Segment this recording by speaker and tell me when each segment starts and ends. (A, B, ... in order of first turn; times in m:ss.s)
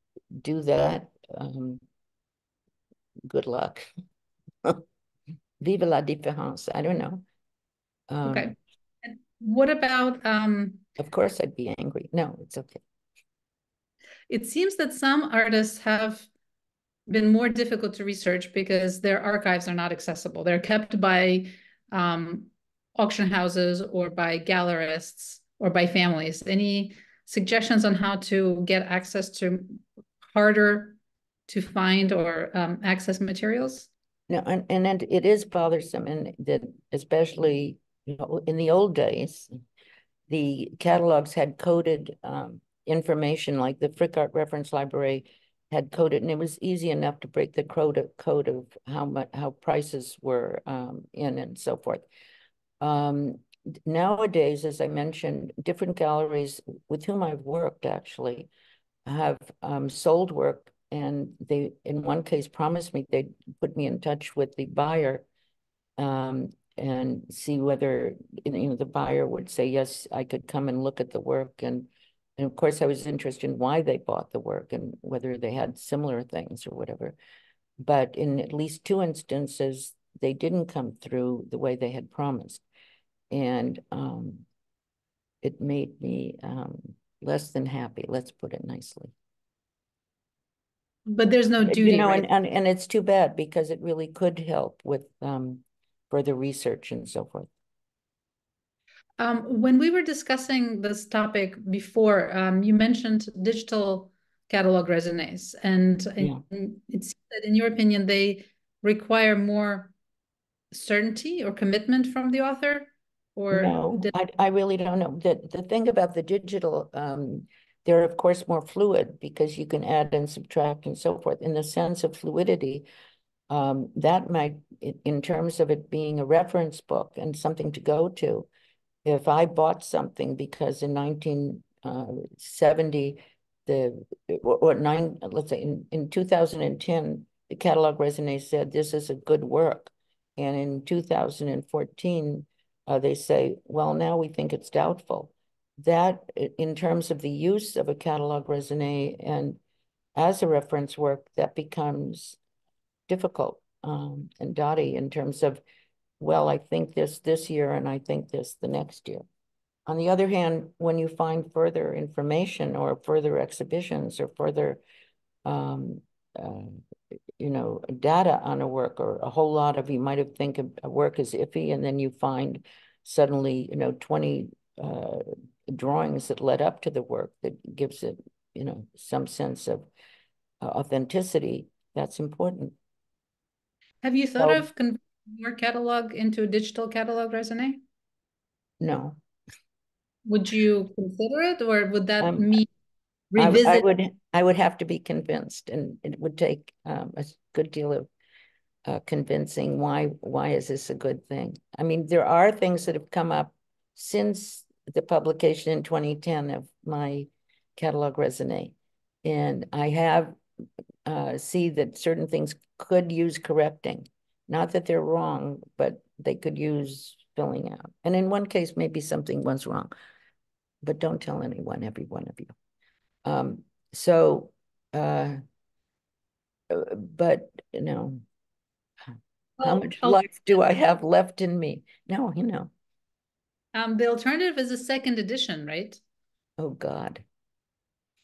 0:00.4-0:01.8 A
0:03.3-0:03.8 A
0:05.6-0:07.2 A
0:08.1-0:08.5 A
0:08.2-0:10.8 B
0:11.0-0:12.8 A
0:14.3-0:16.3 B
0:17.1-0:29.8 B
0:30.3-0:33.9 B
0:34.3-0:39.5 A
0:40.3-0:52.0 A
0:52.8-0:58.5 A
0:59.1-1:05.2 A
1:06.0-1:17.2 A
1:17.8-1:22.6 A
1:23.3-1:24.4 A
1:25.4-1:29.1 A
1:31.1-1:32.3 B
1:31.7-1:37.5 A
1:39.2-1:49.9 B
1:50.7-1:54.1 B
1:53.5-2:02.8 A
2:03.5-2:08.5 A
2:09.0-2:29.6 A
2:30.2-2:32.4 A
2:33.1-2:35.6 A
2:36.2-2:39.2 A
2:39.9-2:44.8 A
2:45.5-2:46.8 A
2:47.4-2:59.9 A
3:00.6-3:02.8 A
3:04.0-3:07.8 B
3:04.4-3:04.6 A
3:08.8-3:09.2 A
3:10.3-3:12.7 B
3:12.2-3:12.6 A
3:13.3-3:13.9 B
3:13.4-3:18.1 A
3:18.9-3:30.4 A
3:31.1-3:39.9 A
3:40.8-3:42.5 A
3:43.2-3:45.4 A
3:46.7-3:48.2 A
3:49.6-3:50.2 B
3:49.6-3:52.7 A
3:53.7-3:56.0 B
3:56.6-3:57.2 A